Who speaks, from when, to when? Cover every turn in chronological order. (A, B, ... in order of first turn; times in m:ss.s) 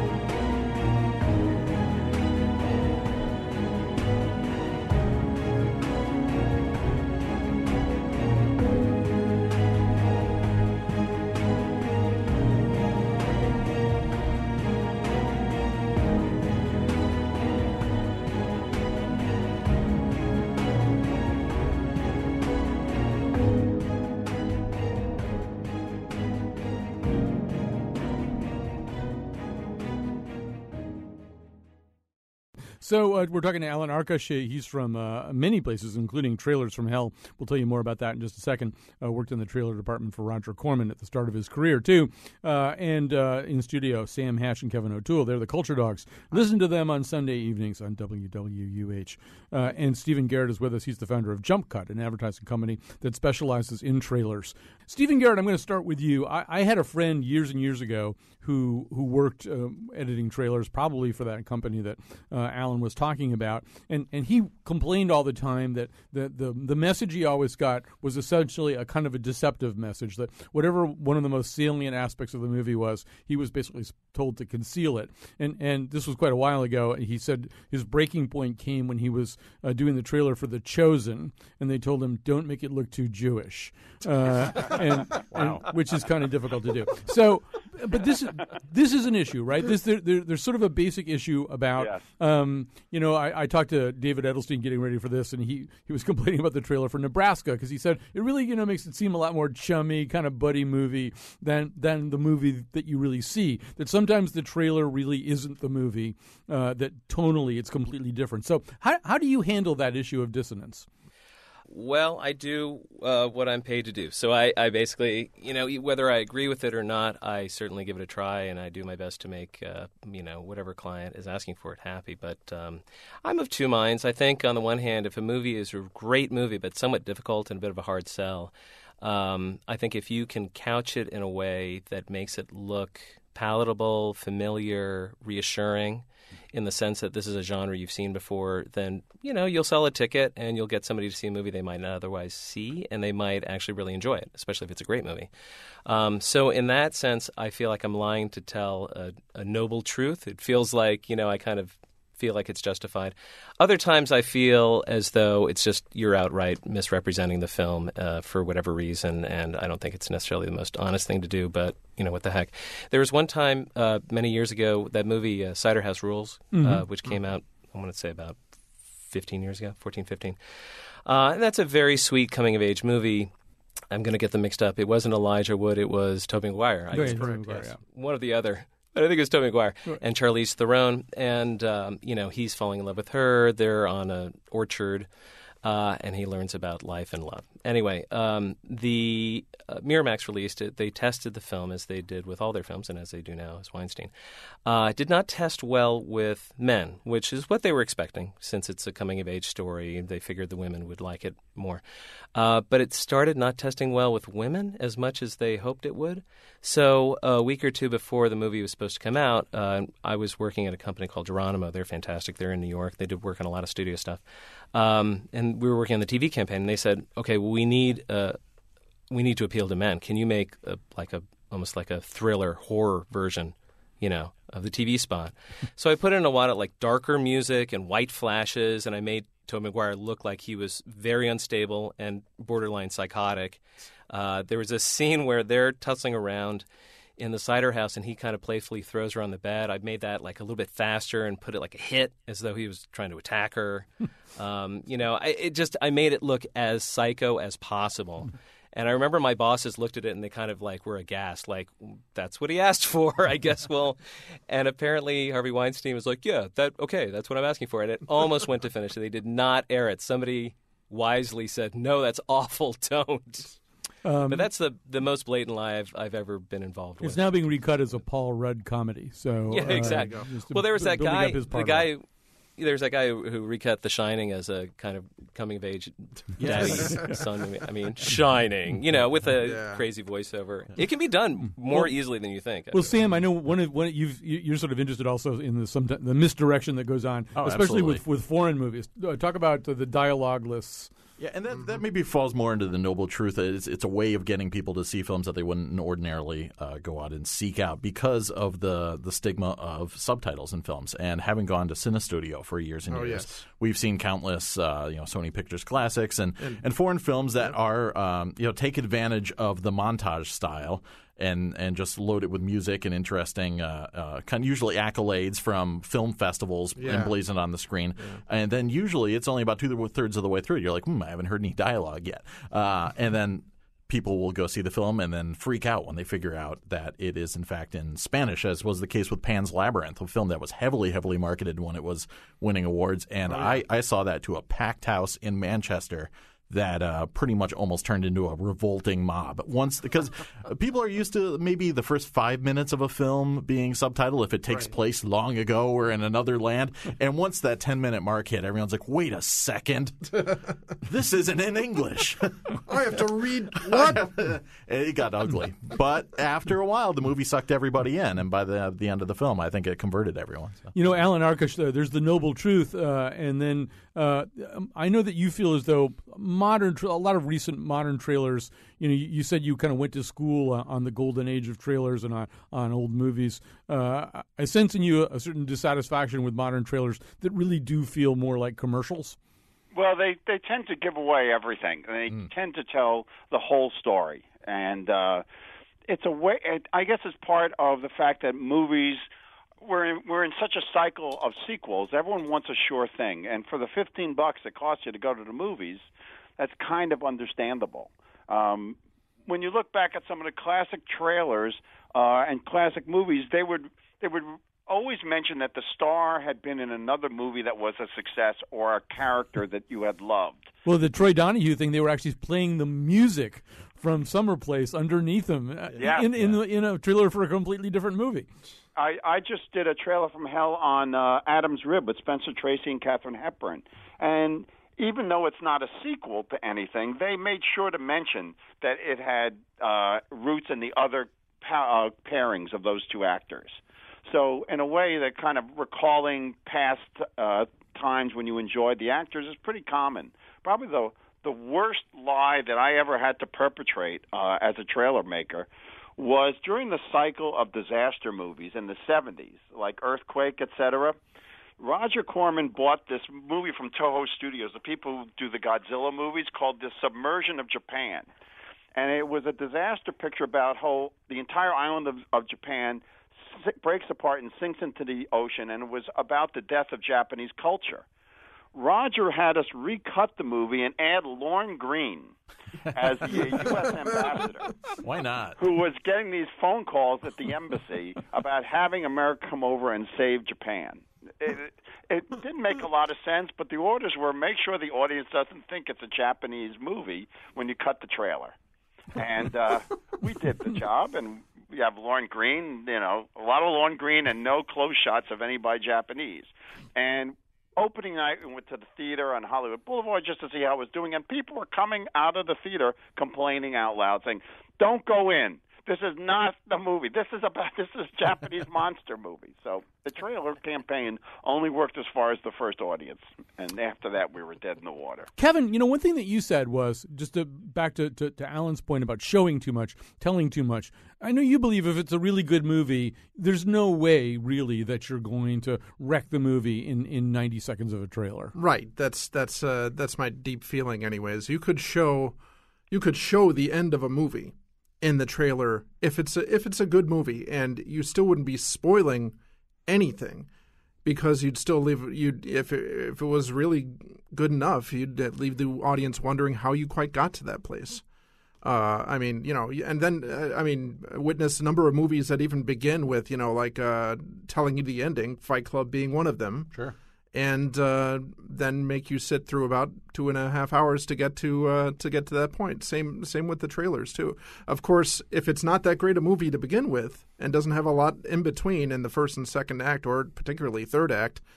0:32.8-1:50.9 A
1:31.8-1:32.1 B
1:51.7-2:25.3 C
2:25.9-2:48.4 C
2:46.5-2:46.8 A
2:49.0-2:50.4 C
2:51.0-2:53.3 C
2:53.9-3:05.1 C
2:56.9-2:57.8 A
2:57.0-2:57.6 D
3:05.6-3:14.1 C
3:14.7-3:21.8 C
3:22.4-3:34.2 C
3:34.7-3:38.4 C
3:39.1-3:56.7 C
3:57.2-4:23.6 C
4:24.0-4:24.5 A
4:24.3-4:27.6 C
4:27.0-4:31.9 A
4:29.5-4:32.0 C
4:29.6-4:30.3 D
4:32.6-4:42.9 C
4:36.4-4:37.2 E
4:39.4-4:39.8 D
4:41.6-4:41.9 A
4:42.7-4:50.9 A
4:47.4-4:48.0 E
4:51.2-5:50.2 E
5:02.9-5:03.4 D
5:16.8-5:17.2 D
5:33.3-5:33.6 D
5:50.8-5:52.5 E
5:52.7-5:54.3 D
5:53.6-6:00.7 E
6:00.8-6:19.2 A
6:19.7-6:25.2 B
6:25.9-6:29.1 B
6:29.6-6:35.9 B
6:36.4-6:50.5 B
6:50.6-6:58.3 A
6:55.8-6:56.1 B
6:58.8-7:31.0 B
7:31.6-7:38.1 B
7:38.8-7:47.8 B
7:48.5-7:52.2 B
7:52.7-7:54.5 B
7:54.8-7:55.4 E
7:55.4-8:08.4 B
8:08.9-8:35.1 B
8:35.2-8:48.4 A
8:48.3-8:52.2 D
8:52.7-8:59.2 D
8:59.7-9:00.3 D
9:00.8-9:07.8 D
9:08.4-9:16.5 D
9:17.1-9:31.2 D